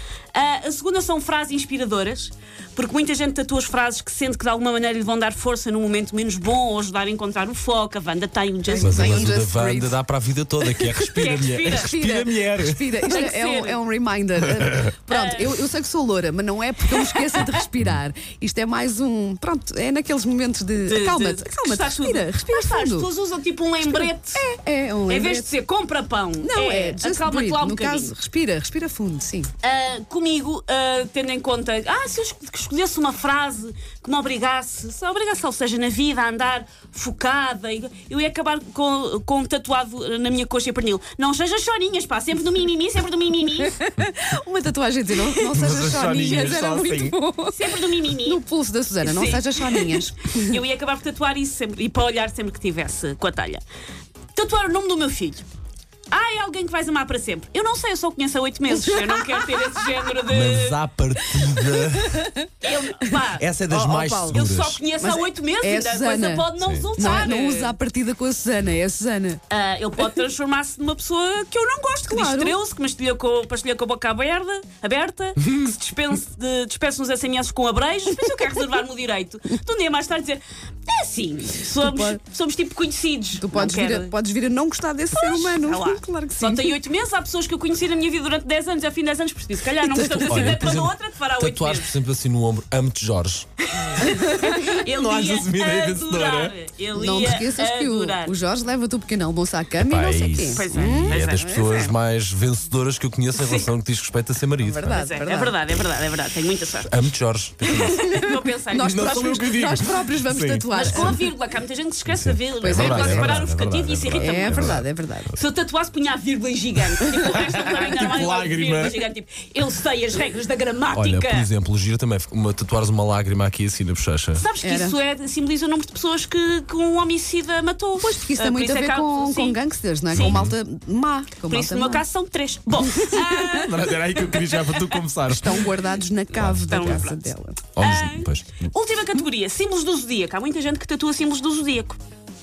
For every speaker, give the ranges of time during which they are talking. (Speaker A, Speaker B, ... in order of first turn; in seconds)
Speaker A: 0.3-9.3, 11.1-11.9, 13.0-13.8, 15.1-15.5, 16.9-17.5, 20.9-24.4, 25.1-28.1, 29.6-43.7, 46.2-46.5, 47.5-48.4, 49.0-53.6, 54.3-55.4, 56.1-60.8, 62.6-63.5, 64.3-67.7, 69.5-84.1, 85.1-92.0, 93.7-98.4, 100.5-101.5, 103.4-103.7, 104.9-107.0, 107.6-109.4, 110.7-114.8, 115.3-121.5, 124.3-129.6, 130.1-130.4, 131.5-135.0, 136.5-142.0
Speaker B: 8.7-10.0, 11.7-23.1, 23.8-25.5, 26.4-29.5, 43.6-50.6, 58.9-59.4, 61.7-62.4, 63.7-64.4, 65.0-69.4, 72.1-72.6, 81.8-82.2, 83.4-86.7, 89.8-90.5, 94.3-94.8, 96.9-101.9, 104.6-105.5, 108.0-111.2, 112.6-113.4, 114.2-115.3, 117.2-117.4, 124.6-125.0, 128.0-132.0, 132.8-133.4, 135.4-137.6
Speaker C: 8.8-13.1, 45.5-47.1, 60.3-62.3, 63.4-64.8, 66.6-66.9, 90.2-94.0, 94.8-96.5, 99.8-105.0, 106.8-108.2, 108.8-111.2, 112.1-114.8, 117.8-119.0, 120.9-124.4, 130.1-130.5, 133.4-135.6, 136.3-137.0, 137.8-138.6